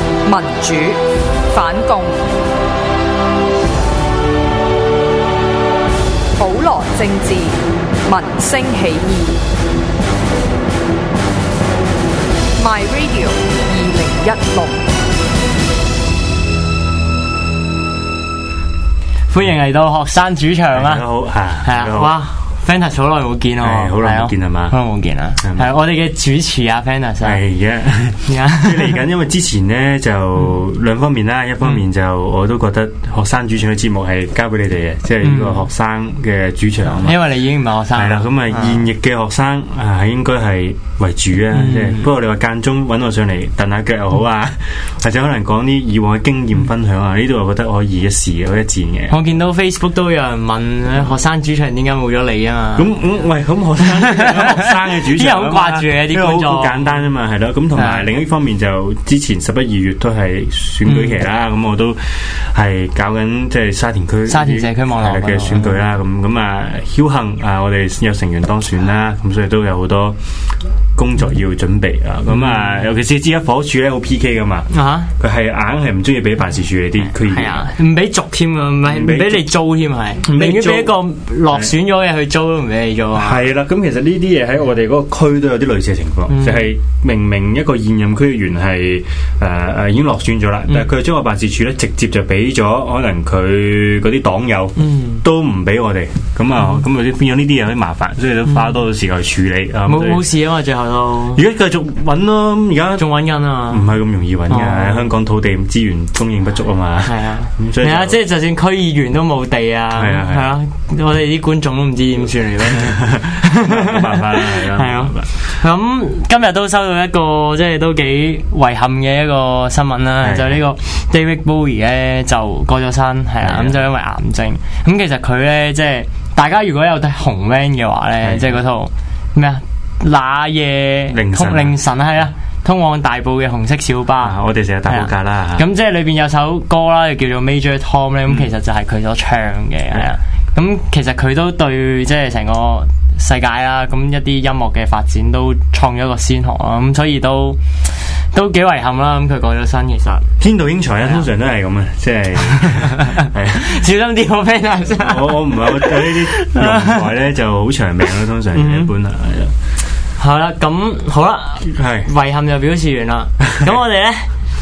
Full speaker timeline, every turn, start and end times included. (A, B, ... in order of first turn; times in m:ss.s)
0:00.2-0:02.2 A
0:06.4-0:09.4 A
0:12.6-0:14.8 A
0:19.3-0:21.0 B
0:20.7-0:22.1 C
0:21.6-0:27.4 B
0:23.6-0:24.8 C
0:25.4-0:25.7 C
0:27.2-0:37.2 C
0:28.2-0:29.0 B
0:35.2-0:35.6 B
0:36.8-0:38.9 B
0:37.9-0:49.1 C
0:41.5-0:42.1 B
0:49.1-0:52.9 B
0:52.8-1:10.2 C
0:53.8-0:57.0 B
0:57.7-0:58.0 B
1:00.8-1:01.2 B
1:04.3-1:05.8 B
1:10.9-1:17.6 C
1:12.3-1:12.6 B
1:14.7-1:15.1 B
1:17.2-1:23.4 B
1:18.8-1:19.5 C
1:20.2-1:21.7 C
1:23.2-1:40.2 C
1:26.3-1:26.7 B
1:34.8-1:35.2 B
1:39.8-1:41.4 B
1:41.3-1:43.1 C
1:43.0-1:43.8 B
1:43.7-1:48.2 C
1:44.5-1:45.1 B
1:47.0-2:14.4 B
1:50.0-1:50.5 C
1:52.8-1:55.3 C
2:00.2-2:00.6 C
2:03.4-2:03.8 C
2:08.2-2:08.5 C
2:11.1-2:11.8 C
2:14.2-2:15.6 C
2:14.9-2:27.6 B
2:28.2-2:30.3 B
2:30.4-2:33.8 C
2:31.0-2:31.3 B
2:32.8-2:37.1 B
2:35.0-2:39.5 C
2:38.5-2:38.9 B
2:40.2-2:44.3 B
2:41.7-2:42.1 C